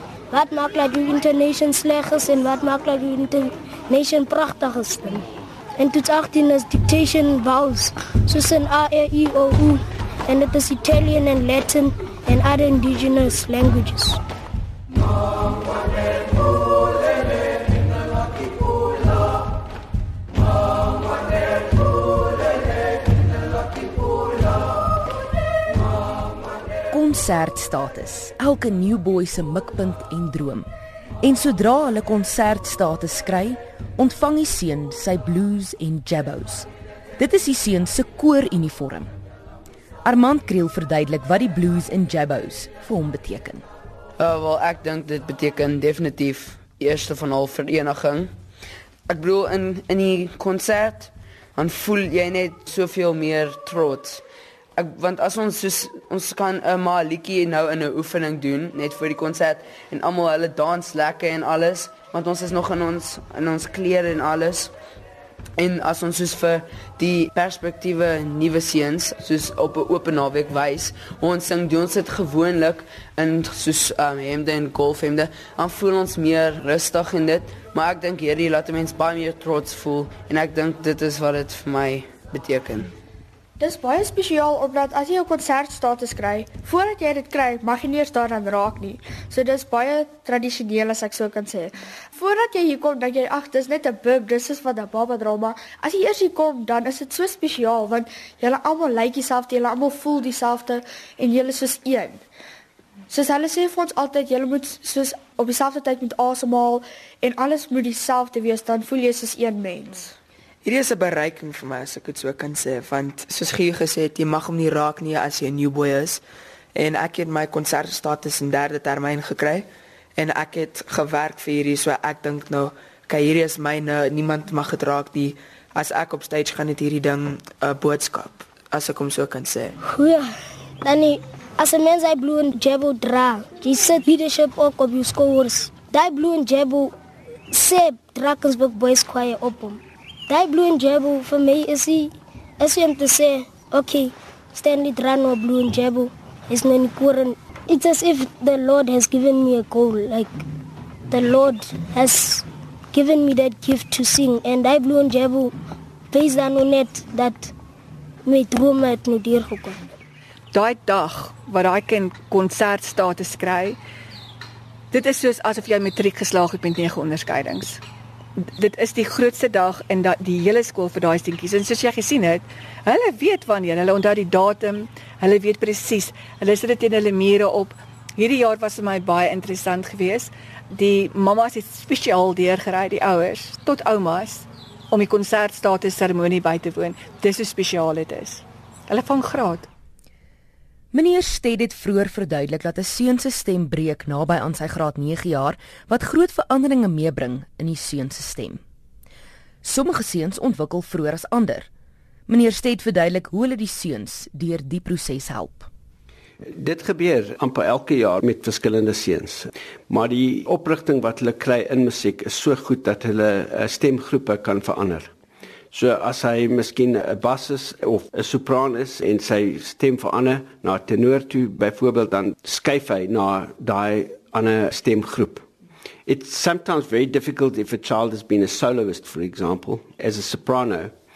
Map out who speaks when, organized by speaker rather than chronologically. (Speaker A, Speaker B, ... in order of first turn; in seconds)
Speaker A: 0.3-5.2, 5.8-14.2, 129.8-136.9, 137.5-150.4, 151.1-155.5, 156.1-157.5, 158.2-159.8
Speaker B: 26.9-30.7, 31.2-39.1, 40.0-43.6, 190.9-198.6, 199.6-201.7, 202.3-205.7
Speaker C: 44.2-48.3, 49.1-54.2, 54.8-64.7, 65.6-82.9
Speaker D: 83.6-102.2, 103.1-110.1
Speaker E: 110.6-116.2, 116.7-129.8
Speaker F: 160.5-163.8, 164.9-167.8, 168.4-189.7
Speaker G: 206.4-215.1, 215.7-225.4, 226.1-230.9